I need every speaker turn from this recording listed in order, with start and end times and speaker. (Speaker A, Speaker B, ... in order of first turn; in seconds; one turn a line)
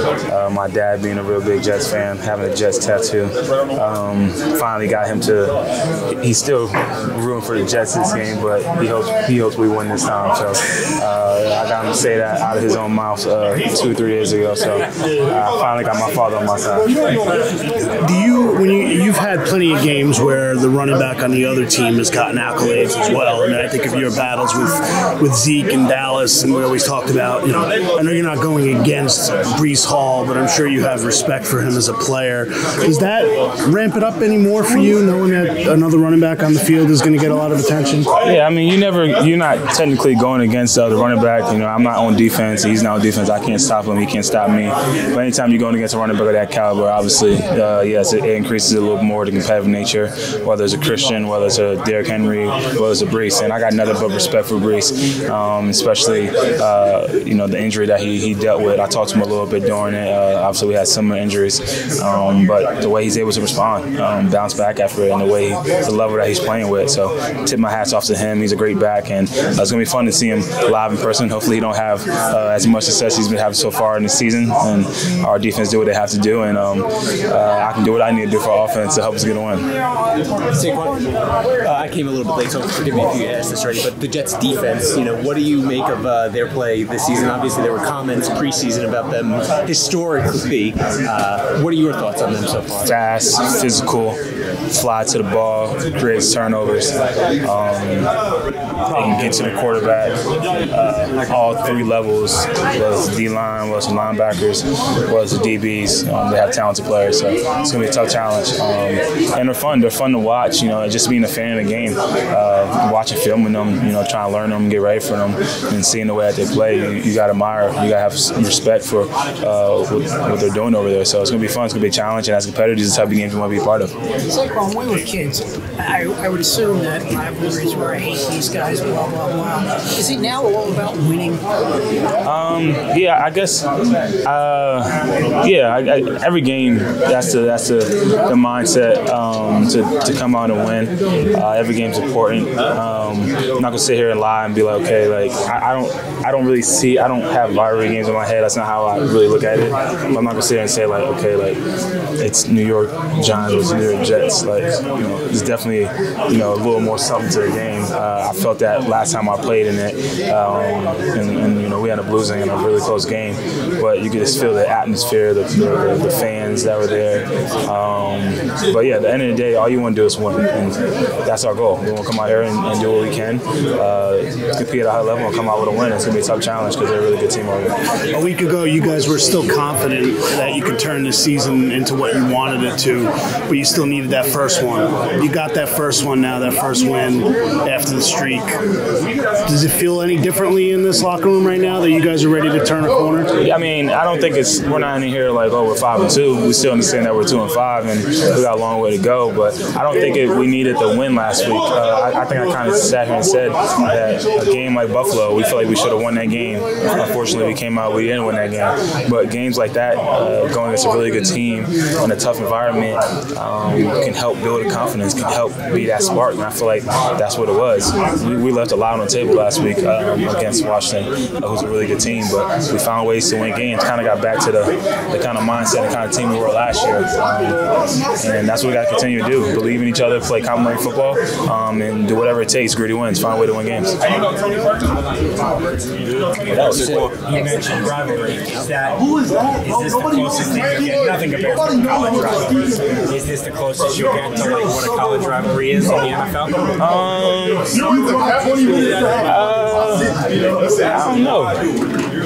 Speaker A: 0.3-5.5
Speaker A: 6.2-16.9
Speaker B: 17.9-38.1
Speaker A: 38.2-79.7
Speaker C: 80.5-81.1
Speaker C: 81.6-92.9
Speaker A: 92.8-94.2
Speaker A: 94.7-96.9
Speaker A: 97.4-98.1
Speaker A: 98.9-100.2
Speaker A: 100.7-123.9
Speaker D: 124.3-131.4
Speaker A: 132.2-133.7
Speaker A: 134.2-151.6
Speaker A: 152.2-177.7
Speaker B: 178.1-188.6
Speaker B: 189.4-193.3
Speaker A: 193.4-227.6
Speaker A: 228.2-233.9
Speaker A: 236.5-237.1
Speaker C: 237.2-239.0
Speaker C: 239.6-242.5
Speaker C: 243.1-246.7
Speaker A: 246.8-247.8
Speaker A: 249.2-250.1
Speaker A: 250.9-251.6